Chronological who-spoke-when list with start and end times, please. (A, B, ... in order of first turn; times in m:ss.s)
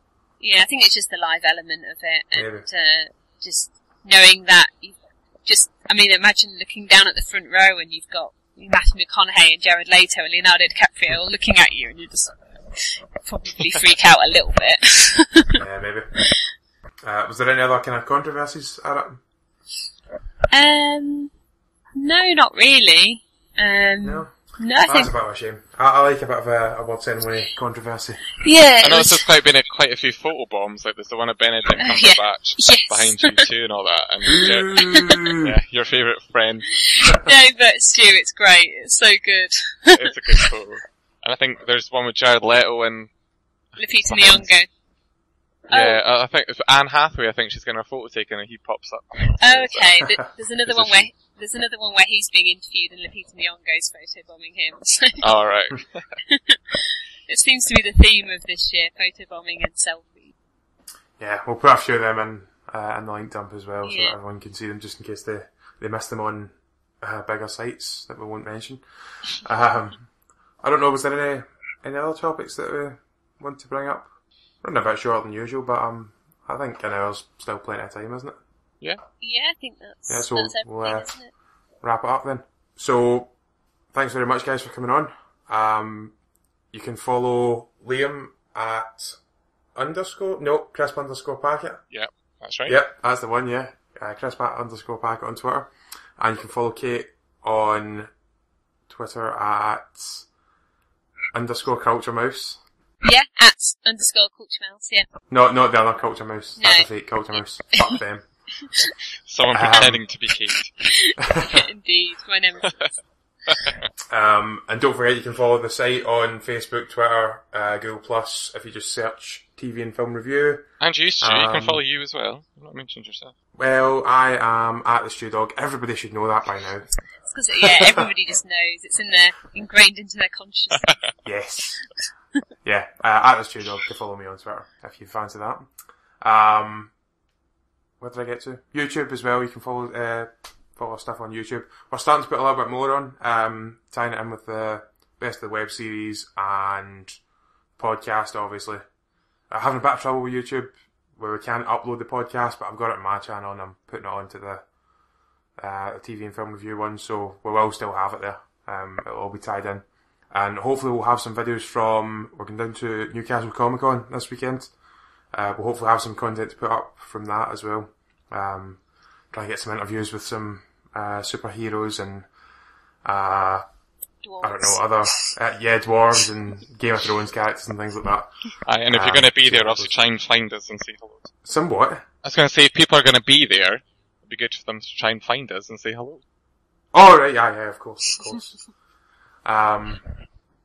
0:00.4-0:15.6 A
0:02.3-0:02.6 B
0:15.6-0:16.1 B
0:17.0-0:19.2 B
0:20.5-0:21.3 A
0:22.0-0:25.1 A
0:24.0-0:28.3 B
0:28.4-0:29.2 A
0:28.8-0:37.2 C
0:31.8-0:33.4 A
0:34.3-0:35.5 B
0:34.4-0:35.3 A
0:36.9-0:40.5 A
0:39.9-0:43.1 C
0:43.8-0:44.5 C
0:43.8-0:44.7 A
0:45.7-0:51.1 C
0:45.7-0:46.0 A
0:49.4-0:55.3 A
0:55.2-0:56.1 C
0:56.3-1:00.3 A
1:01.2-1:08.8 B
1:03.8-1:04.2 A
1:09.4-1:10.1 B
1:10.6-1:18.4 B
1:19.2-1:21.3 A
1:20.1-1:21.1 B
1:21.8-1:23.3 B
1:23.9-1:26.1 B
1:26.7-1:29.2 B
1:29.7-1:31.8 B
1:31.9-1:32.8 C
1:32.6-1:38.1 B
1:38.9-1:40.3 B
1:41.3-1:42.6 B
1:43.0-1:45.1 A
1:45.3-1:48.3 B
1:46.6-1:46.9 A
1:48.6-1:48.9 A
1:49.3-1:50.8 C
1:49.5-1:50.0 B
1:50.8-1:53.0 A
1:51.2-1:51.6 B
1:54.1-2:01.8 B
2:00.8-2:03.3 C
2:03.6-2:06.9 B
2:07.2-2:11.0 A
2:07.6-2:08.0 B
2:11.2-2:11.8 B
2:12.6-2:16.9 B
2:18.0-2:27.2 B
2:27.8-2:28.8 B
2:29.5-2:34.6 B
2:35.6-2:44.7 B
2:45.3-2:52.3 B
2:53.0-2:53.6 B
2:54.2-2:55.3 A
2:54.4-2:59.9 B
2:58.6-3:01.3 C
3:01.4-3:02.0 B
3:02.2-3:06.2 C
3:06.9-3:08.6 B
3:09.4-3:10.0 B